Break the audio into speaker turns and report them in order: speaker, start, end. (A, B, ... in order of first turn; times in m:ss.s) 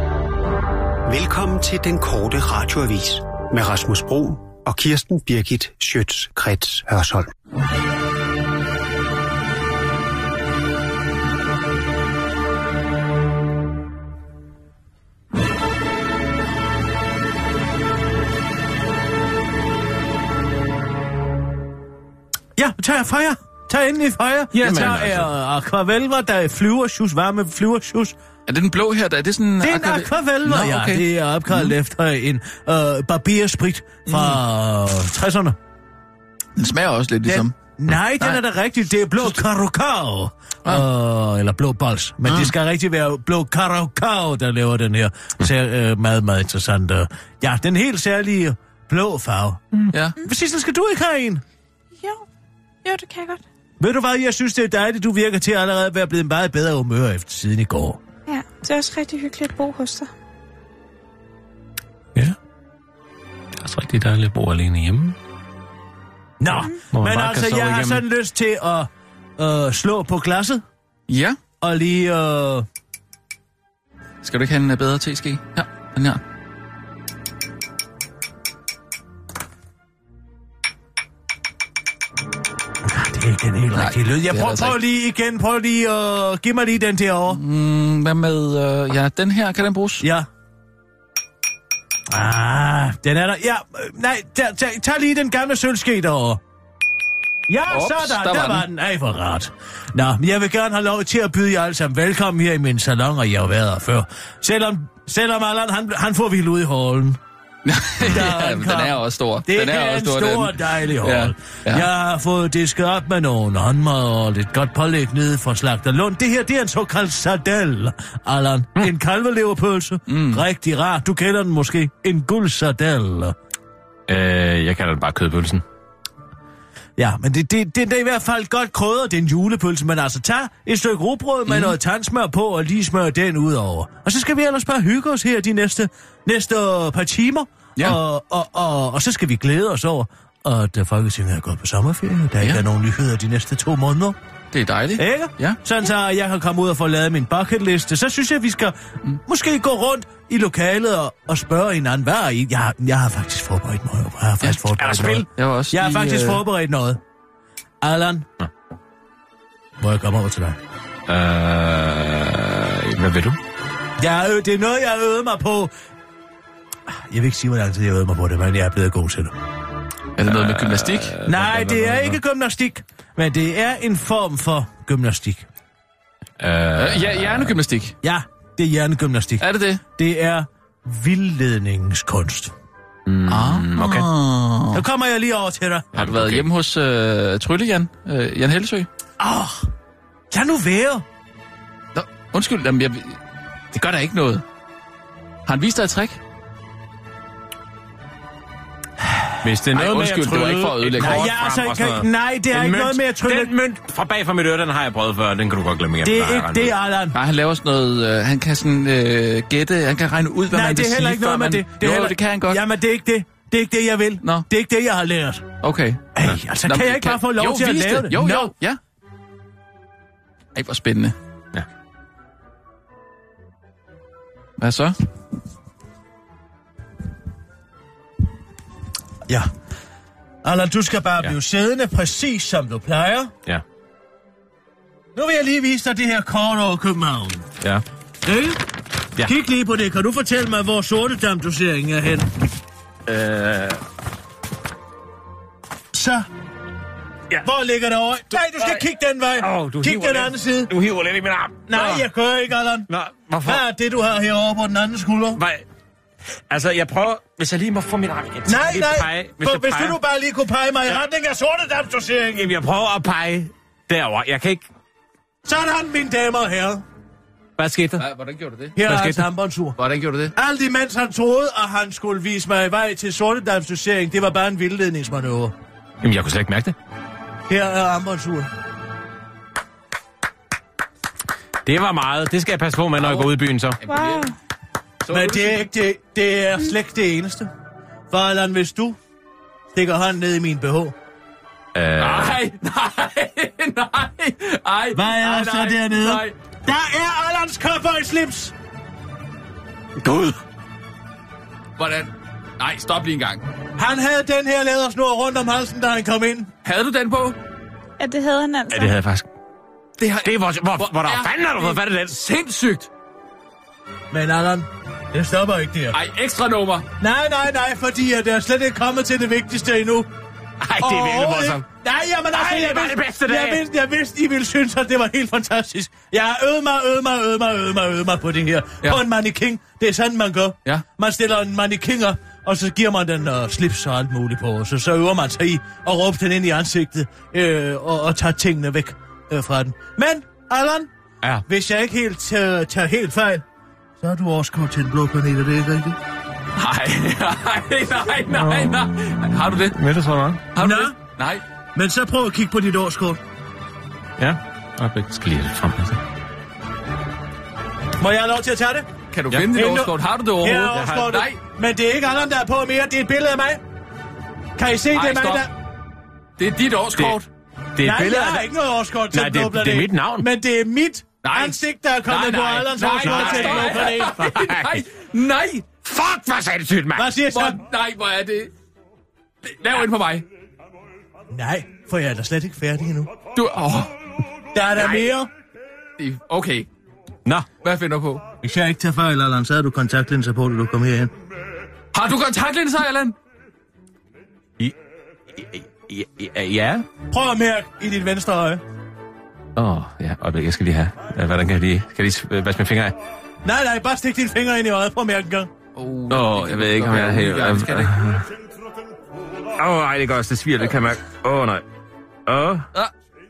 0:01.0-0:07.3 A
0:22.6-0:28.2 B
0:24.5-0:25.3 C
0:28.5-0:31.7 D
0:29.6-0:35.6 B
0:34.1-0:34.4 D
0:36.6-0:37.5 D
0:37.2-0:51.4 B
0:38.1-0:38.4 D
0:49.9-0:50.2 D
0:52.8-0:53.4 E
0:53.8-0:58.0 B
0:58.3-1:00.1 E
1:03.6-1:05.2 C
1:06.4-1:10.6 B
1:06.9-1:08.0 C
1:11.1-1:11.4 D
1:11.6-1:12.6 B
1:14.2-1:16.2 D
1:22.8-1:27.4 B
1:23.7-1:24.8 D
1:27.3-1:30.1 D
1:30.0-1:30.3 B
1:32.1-1:36.4 B
1:37.5-1:47.2 B
1:37.7-1:38.6 D
1:47.6-1:51.9 D
1:48.0-2:03.3 B
2:00.1-2:00.4 D
2:04.1-2:05.6 C
2:07.0-2:24.2 B
2:11.5-2:11.7 D
2:24.5-2:25.6 D
2:25.0-2:37.0 B
2:34.8-2:35.3 C
2:35.4-2:36.4 D
2:37.8-2:38.3 B
2:39.8-2:40.6 B
2:41.1-2:43.4 C
2:44.0-2:45.7 B
2:46.9-2:49.3 B
2:50.2-2:51.2 D
2:50.2-2:52.2 C
2:51.2-2:55.5 B
2:56.4-2:57.6 C
2:56.7-2:57.9 D
2:58.0-3:02.5 B
2:59.4-2:59.8 D
3:03.0-3:04.1 C
3:03.3-3:04.8 D
3:04.7-3:06.0 B
3:05.9-3:06.5 C
3:06.0-3:08.9 D
3:09.2-3:09.7 B
3:10.3-3:11.0 B
3:11.9-3:13.2 D
3:13.7-3:14.4 D
3:15.5-3:16.2 D
3:19.0-3:23.5 B
3:19.4-3:26.7 C
3:19.7-3:21.3 D
3:26.0-3:27.2 B
3:27.1-3:32.6 D
3:30.5-3:35.5 B
3:35.6-3:36.1 D
3:36.1-3:38.5 B
3:36.6-3:38.8 D
3:40.5-3:41.2 D
3:44.6-3:44.9 D
3:50.4-3:53.3 B
3:55.2-3:57.5 B
3:58.2-3:58.6 B
3:59.2-4:02.3 B
4:03.1-4:03.8 C
4:05.9-4:06.3 B
4:07.4-4:10.7 B
4:08.5-4:08.8 C
4:09.4-4:12.1 C
4:11.7-4:12.9 B
4:12.9-4:13.6 C
4:13.4-4:15.4 B
4:15.3-4:15.6 C
4:16.5-4:20.0 C
4:18.4-4:22.6 B
4:22.3-4:24.6 C
4:25.4-4:26.8 B
4:27.6-4:28.0 C
4:28.0-4:28.8 D
4:28.8-4:29.8 B
4:28.8-4:29.2 C
4:29.8-4:30.3 D
4:30.3-4:35.5 B
4:36.0-4:36.8 C
4:37.5-4:38.5 B
4:41.6-4:43.8 C
4:43.0-4:43.3 D
4:43.8-4:44.3 D
4:43.9-4:44.3 E
4:45.0-4:45.6 D
4:45.1-4:47.5 B
4:48.1-4:49.0 B
4:49.7-4:50.9 B
4:51.7-4:52.4 C
4:52.0-4:56.3 D
4:54.9-4:58.5 B
5:01.8-5:03.4 D
5:03.8-5:06.5 B
5:06.6-5:07.4 D
5:08.0-5:08.9 E
5:08.7-5:09.3 C
5:10.0-5:12.9 D
5:10.2-5:12.1 C
5:14.1-5:16.0 B
5:15.9-5:16.9 D
5:17.0-5:20.1 B
5:20.6-5:21.6 C
5:20.8-5:40.9 B
5:22.3-5:23.6 C
5:41.4-5:43.4 B
5:44.0-5:46.0 B
5:46.6-5:49.8 D
5:48.3-5:48.9 C
5:49.5-5:50.4 C
5:50.5-5:51.4 D
5:50.6-5:50.9 B
5:51.7-5:53.2 B
5:54.2-5:56.0 C
5:58.0-6:03.6 B
5:59.1-6:01.4 D
6:00.7-6:01.1 C
6:04.6-6:05.5 B
6:04.9-6:05.5 D
6:06.4-6:07.3 D
6:07.8-6:08.4 C
6:07.8-6:14.3 B
6:09.1-6:10.3 C
6:11.2-6:15.6 D
6:13.0-6:14.8 C
6:15.8-6:17.1 C
6:16.9-6:17.6 B
6:17.3-6:18.5 D
6:19.4-6:20.2 D
6:21.3-6:23.1 B
6:23.3-6:23.9 D
6:24.5-6:25.3 B
6:26.0-6:26.7 D
6:27.6-6:28.2 D
6:28.4-6:31.1 B
6:31.9-6:33.1 D
6:35.4-6:36.8 C
6:37.1-6:38.6 B
6:39.6-6:43.0 C
6:43.4-6:45.5 B
6:45.7-6:47.9 D
6:46.1-6:48.2 C
6:49.6-6:51.6 C
6:52.2-6:52.7 C